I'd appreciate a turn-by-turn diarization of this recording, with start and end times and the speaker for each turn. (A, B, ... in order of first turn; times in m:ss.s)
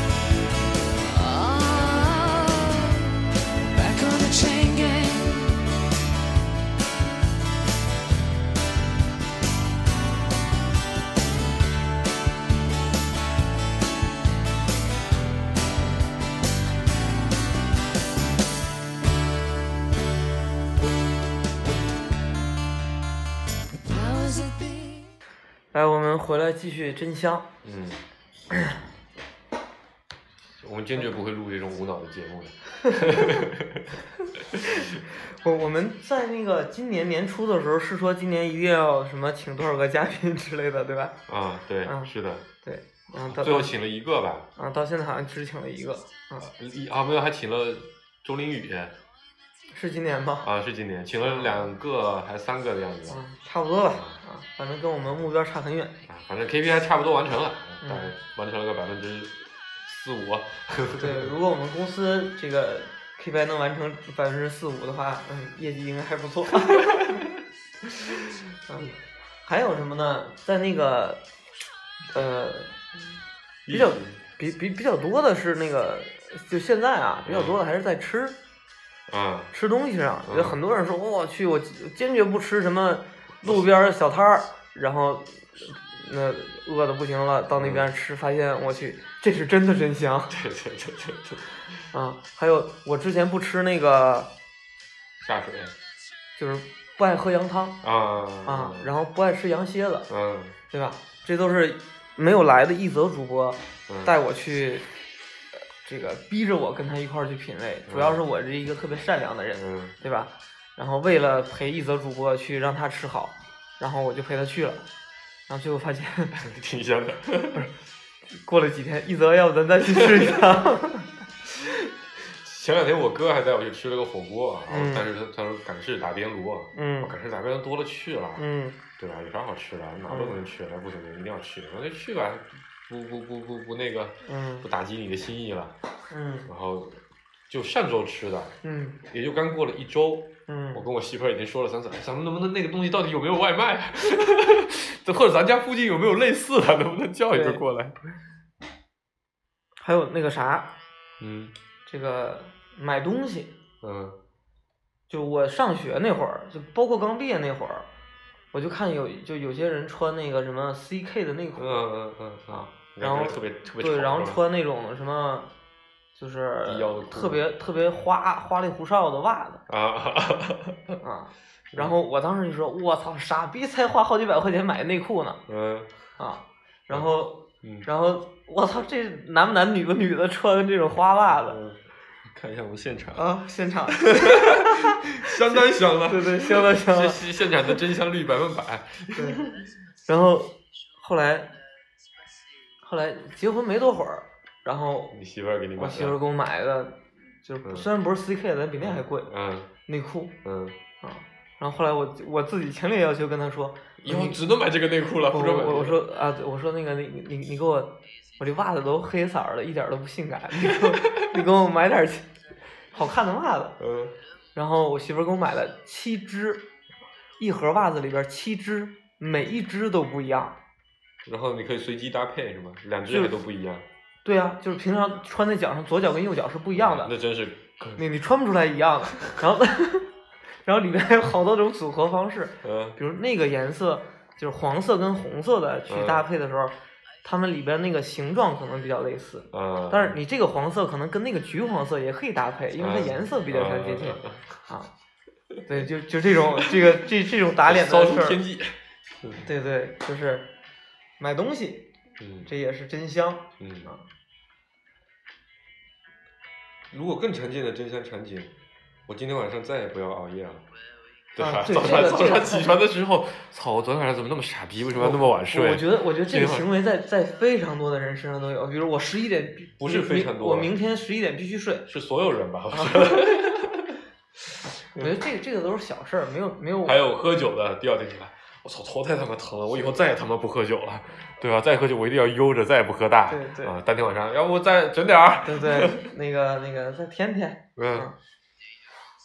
0:01.0-0:03.1 A
0:03.7-0:05.6 A
0:23.8-0:25.1 A
0:25.7-0:27.5 B
0:27.6-0:28.0 C
0:30.6-0:34.0 C
0:32.8-0:33.4 B
0:34.5-0:34.9 C
0:34.7-0:41.2 B
0:41.3-0:42.5 C
0:41.8-0:42.1 B
0:42.6-0:43.7 B
0:43.2-0:44.5 C
0:44.6-0:46.5 B
0:46.4-0:49.0 C
0:49.7-0:50.5 B
0:50.4-0:53.2 C
0:51.2-0:51.6 B
0:53.1-0:56.0 B
0:56.1-1:01.3 C
0:57.8-0:58.1 B
1:01.0-1:07.2 B
1:06.8-1:07.2 C
1:08.7-1:11.2 B
1:12.1-1:12.8 B
1:13.6-1:14.2 C
1:13.7-1:18.4 B
1:17.2-1:17.6 C
1:19.1-1:19.5 C
1:19.5-1:30.4 B
1:20.2-1:20.6 C
1:27.6-1:27.9 C
1:30.3-1:31.5 C
1:31.9-1:34.3 B
1:35.2-1:35.7 C
1:36.4-1:37.8 B
1:37.8-1:38.9 C
1:38.4-1:40.1 B
1:40.1-1:40.6 C
1:40.7-1:44.8 B
1:43.9-1:44.1 C
1:45.8-1:54.8 B
1:47.9-1:48.2 C
1:49.5-1:50.0 C
1:55.5-1:56.4 B
1:56.4-1:57.6 C
1:58.4-2:01.1 B
2:00.0-2:00.4 C
2:02.3-2:08.4 C
2:04.7-2:05.1 B
2:06.7-2:07.1 B
2:08.4-2:08.8 B
2:09.0-2:15.7 C
2:10.1-2:10.4 B
2:14.2-2:14.6 B
2:16.1-2:16.5 B
2:16.5-2:18.5 C
2:18.6-2:19.0 B
2:19.0-2:28.0 C
2:20.5-2:20.8 B
2:27.3-2:27.6 B
2:29.8-2:30.7 B
2:31.2-2:31.5 C
2:31.8-2:33.6 B
2:33.8-2:34.2 C
2:35.1-2:37.9 B
2:38.5-2:41.8 B
2:41.6-2:44.4 C
2:42.5-2:45.5 B
2:46.2-2:49.6 B
2:46.6-2:47.4 C
2:49.7-2:51.0 C
2:51.0-2:55.4 B
2:55.5-2:55.9 C
2:56.2-3:01.6 B
2:57.6-2:57.9 C
3:01.3-3:03.2 C
3:03.1-3:07.2 B
3:04.0-3:09.6 C
3:09.1-3:09.5 B
3:10.0-3:11.5 B
3:12.8-3:15.2 B
3:15.1-3:16.2 C
3:15.8-3:19.3 B
3:17.6-3:17.9 C
3:18.8-3:19.7 C
3:19.9-3:20.4 B
3:20.4-3:20.8 C
3:21.0-3:24.4 B
3:24.0-3:26.0 C
3:25.3-3:32.3 B
3:30.7-3:31.2 C
3:32.9-3:33.8 B
3:33.8-3:34.1 C
3:34.5-3:36.6 B
3:37.4-3:40.6 B
3:41.2-3:43.8 C
3:43.1-3:43.3 B
3:44.2-3:47.1 B
3:46.7-3:48.0 C
3:48.0-3:50.1 B
3:50.6-4:04.9 B
3:52.6-3:53.0 C
3:55.9-3:56.2 C
3:59.5-4:00.2 C
4:02.8-4:04.4 C
4:05.6-4:08.4 B
4:06.5-4:07.0 C
4:07.6-4:09.4 C
4:09.4-4:10.5 B
4:11.2-4:14.0 B
4:12.2-4:12.5 C
4:13.6-4:13.9 C
4:16.9-4:18.5 C
4:19.1-4:20.6 C
4:21.4-4:26.7 C
4:21.4-4:22.7 B
4:25.0-4:31.9 B
4:29.8-4:30.7 C
4:31.9-4:34.0 C
4:32.7-4:33.4 B
4:35.0-4:37.0 B
4:36.8-4:46.1 C
4:43.3-4:43.8 B
4:45.4-4:48.1 B
4:47.8-4:48.1 C